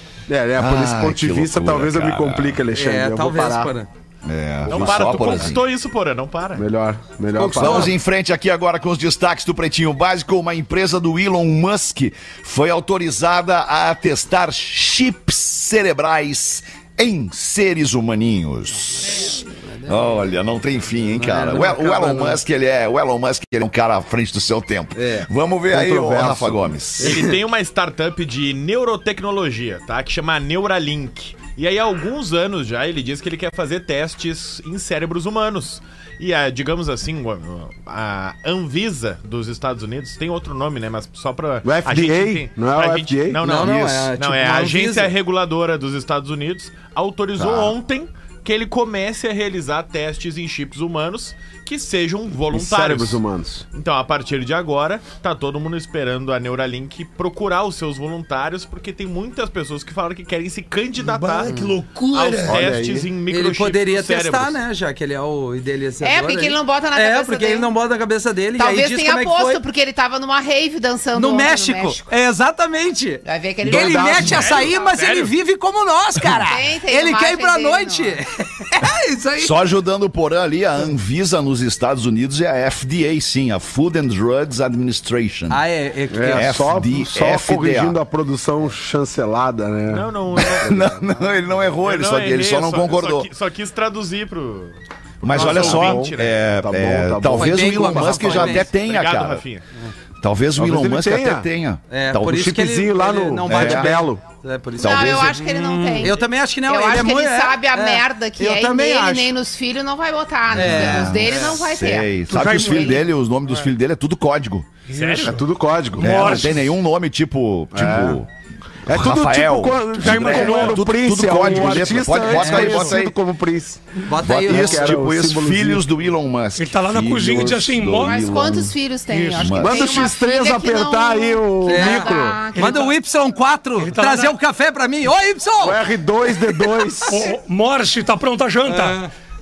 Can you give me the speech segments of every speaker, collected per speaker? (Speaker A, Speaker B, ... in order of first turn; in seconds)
Speaker A: 0.3-3.7, 6.5-8.0, 25.7-27.1, 41.6-43.4, 47.4-47.7, 52.5-53.6, 62.5-63.1, 73.7-74.5, 86.1-90.1, 95.3-98.6, 100.6-101.5, 102.3-104.2, 115.2-116.4, 117.7-118.2, 118.9-125.8, 129.6-132.5, 135.6-137.3
Speaker B: 0.6-2.6, 4.2-5.6, 7.6-27.2, 79.4-85.6, 86.3-88.0, 90.4-93.3, 95.2-99.4, 100.2-102.5, 103.5-103.9, 104.8-105.4, 110.5-114.7, 116.0-118.3, 118.9-123.1, 124.2-128.8, 129.3-130.0
Speaker C: 2.7-3.9, 7.3-8.0, 19.1-20.3, 21.1-22.4, 25.0-25.3, 43.4-45.1, 61.4-61.8, 63.3-69.6, 71.1-79.5, 85.5-86.6, 97.3-98.7, 101.9-109.3, 110.5-111.6, 122.4-122.7, 124.0-125.0, 131.7-137.2, 138.7-139.1
Speaker D: 4.7-6.7, 27.0-53.2, 53.7-61.6, 62.1-64.6, 74.2-75.3, 89.9-90.8, 91.8-96.4, 98.6-99.7, 114.9-115.4
Speaker E: 61.0-62.6, 112.3-113.0, 114.9-115.4, 116.0-116.7, 120.0-120.9, 121.4-121.9, 126.6-128.2, 129.1-129.6, 133.8-134.3, 137.1-139.0
Speaker F: 66.0-67.7, 68.6-72.1, 73.2-74.9, 76.4-78.2, 104.8-113.0, 128.0-132.9